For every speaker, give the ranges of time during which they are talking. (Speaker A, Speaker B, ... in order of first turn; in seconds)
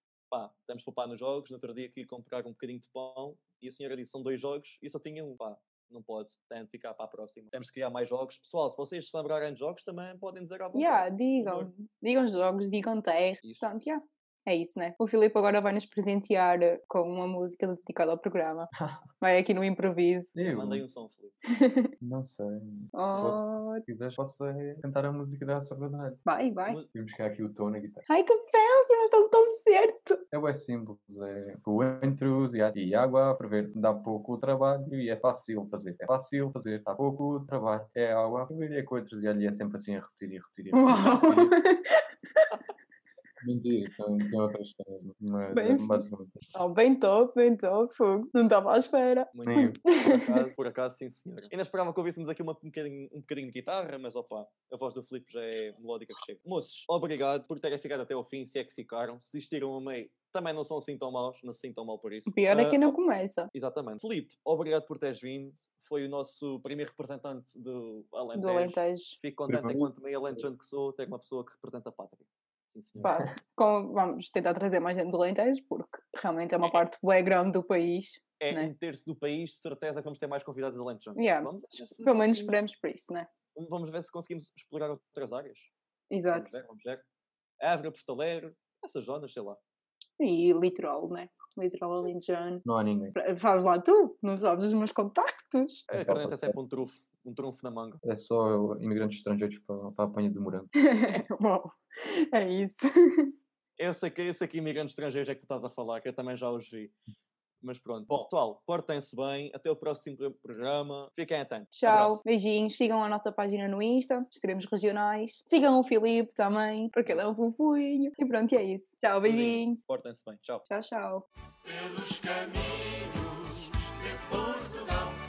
Speaker A: 0.3-11.7, 13.4-13.7, 20.4-21.4, 49.3-62.9, 63.5-73.2, 78.4-82.6, 83.5-85.7, 86.3-87.0, 87.6-89.6, 95.9-98.0, 103.8-106.9, 107.6-112.2, 119.2-120.6
Speaker B: 10.7-18.7, 19.2-20.3, 21.5-21.9, 22.9-23.8, 26.2-26.8, 28.1-30.2, 40.7-42.5, 45.5-50.5, 62.3-63.5, 68.4-69.2, 73.0-78.7, 81.2-83.3, 86.1-86.5, 90.2-92.6, 93.2-95.8, 100.7-103.3, 111.7-119.8, 120.7-121.2
Speaker C: 18.7-19.0, 20.3-20.8, 22.0-26.2, 26.9-28.1, 30.3-41.6, 43.4-46.4, 49.5-49.8, 69.5-70.4, 73.0-73.3, 92.6-93.2, 95.9-96.6, 98.0-100.7